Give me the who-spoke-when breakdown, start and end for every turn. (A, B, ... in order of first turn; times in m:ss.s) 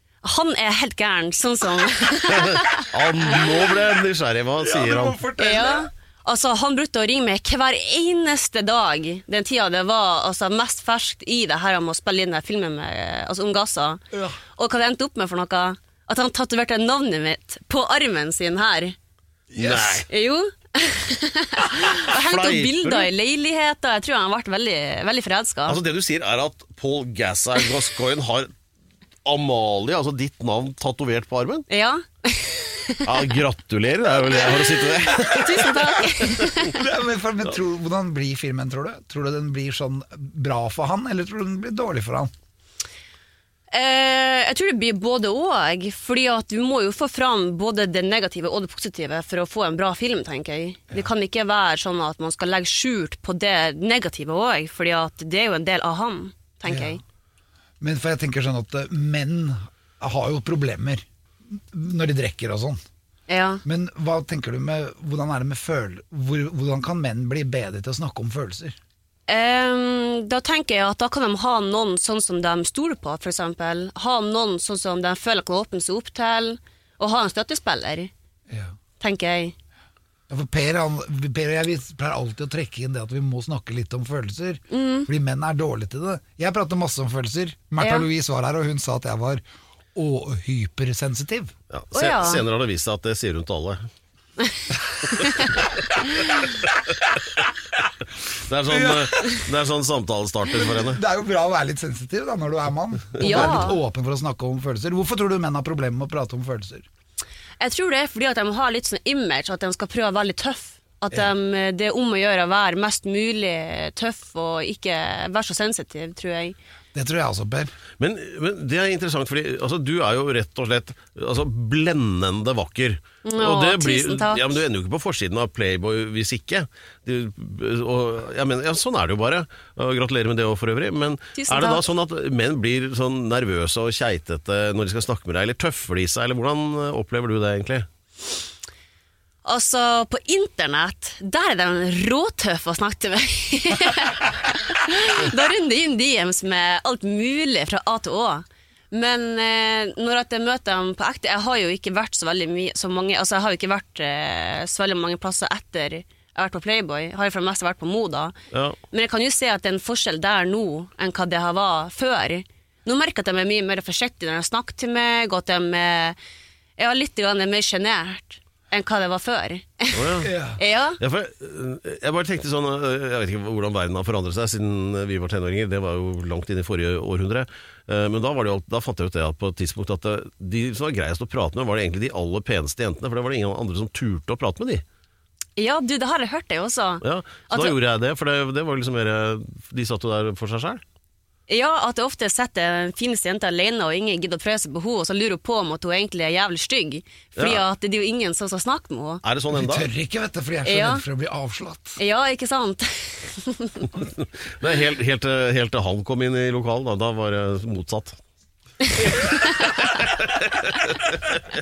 0:00.2-0:02.9 A
0:02.3-0:05.2 B
0:04.6-0:05.9 C
0:05.4-0:14.0 A
0:14.1-0:14.4 C
0:14.6-0:19.0 A
0:19.5-0:20.0 C
0:19.6-0:20.1 B
0:20.1-0:25.8 A
0:22.0-0:23.1 B
0:25.7-0:28.5 B
0:29.2-0:31.7 B
0:31.7-0:33.1 A
0:33.0-0:36.5 B
0:35.2-0:36.8 A
0:36.7-0:42.3 C
0:43.7-0:57.0 A
0:56.7-0:57.0 C
0:57.8-1:02.8 C
1:03.3-1:03.6 A
1:03.6-1:08.8 C
1:09.3-1:18.1 A
1:18.5-1:18.7 C
1:19.0-1:19.5 A
1:20.3-1:29.4 C
1:24.7-1:25.1 A
1:27.8-1:28.1 A
1:29.9-1:31.5 C
1:31.7-1:33.9 B
1:31.9-1:32.4 A
1:35.2-1:35.5 A
1:38.4-1:41.0 B
1:38.7-1:39.4 C
1:40.5-1:46.8 C
1:43.2-1:43.8 A
1:43.2-1:43.5 B
1:47.6-1:56.6 A
1:56.9-1:57.7 C
1:58.0-2:17.9 B
2:03.2-2:04.5 A
2:11.3-2:11.8 A
2:19.4-2:38.3 A
2:38.5-2:38.8 B
2:38.9-2:46.2 A
2:46.8-2:51.0 A
2:49.9-2:50.3 B
2:50.2-2:50.6 C
2:51.0-3:04.8 B
3:05.6-3:07.8 A
3:07.0-3:10.8 B
3:11.5-3:19.2 A
3:17.4-3:17.6 B
3:19.2-3:19.9 B
3:19.5-3:22.0 C
3:20.6-3:21.0 A
3:22.0-3:23.9 A
3:24.6-3:28.2 B
3:30.1-3:31.0 B